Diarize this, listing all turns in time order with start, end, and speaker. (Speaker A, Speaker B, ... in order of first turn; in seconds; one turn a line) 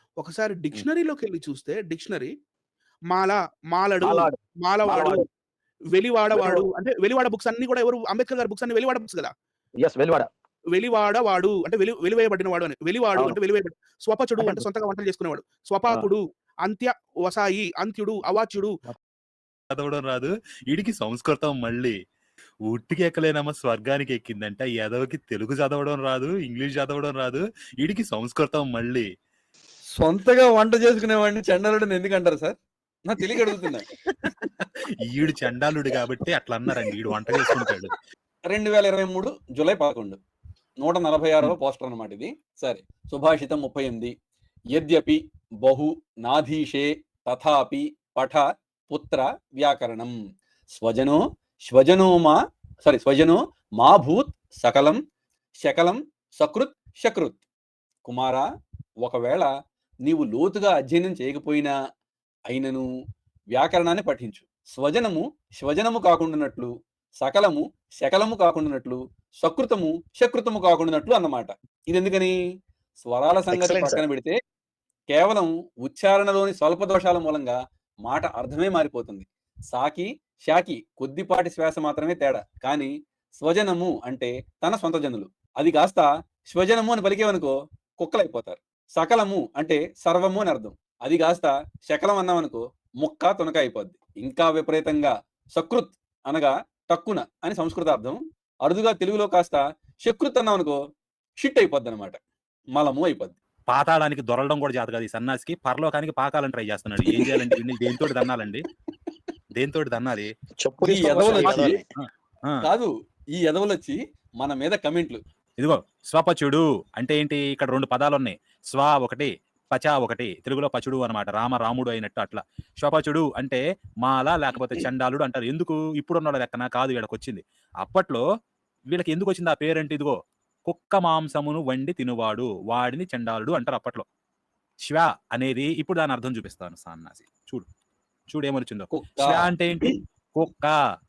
Speaker A: 0.2-2.3
Speaker A: 3.1-5.2
Speaker B: 4.0-4.3
Speaker B: 4.9-5.2
Speaker A: 5.9-9.3
Speaker B: 6.3-6.7
Speaker B: 9.8-10.3
Speaker A: 10.7-18.8
Speaker B: 14.4-14.6
Speaker C: 19.7-21.9
Speaker C: 22.7-29.1
Speaker D: 30.0-32.6
Speaker D: 33.1-33.9
Speaker C: 34.0-37.9
Speaker D: 38.5-40.2
Speaker D: 40.8-44.1
Speaker D: 44.7-50.1
Speaker D: 50.7-51.2
Speaker D: 51.7-55.0
Speaker D: 55.6-57.4
Speaker D: 58.0-58.4
Speaker D: 59.0-59.5
Speaker D: 60.1-61.7
Speaker D: 62.5-62.9
Speaker D: 63.5-66.7
Speaker D: 67.2-72.3
Speaker D: 73.0-74.3
Speaker B: 73.5-74.0
Speaker D: 75.1-77.5
Speaker D: 78.1-100.8
Speaker D: 101.4-102.2
Speaker D: 102.8-103.4
Speaker C: 103.7-108.6
Speaker D: 107.2-107.5
Speaker C: 109.6-110.3
Speaker B: 110.6-111.8
Speaker D: 110.8-111.8
Speaker C: 111.3-112.6
Speaker D: 112.6-115.2
Speaker C: 115.6-128.2
Speaker C: 128.9-130.2
Speaker C: 130.7-134.0
Speaker C: 134.9-137.7
Speaker C: 138.3-140.8
Speaker D: 138.9-139.9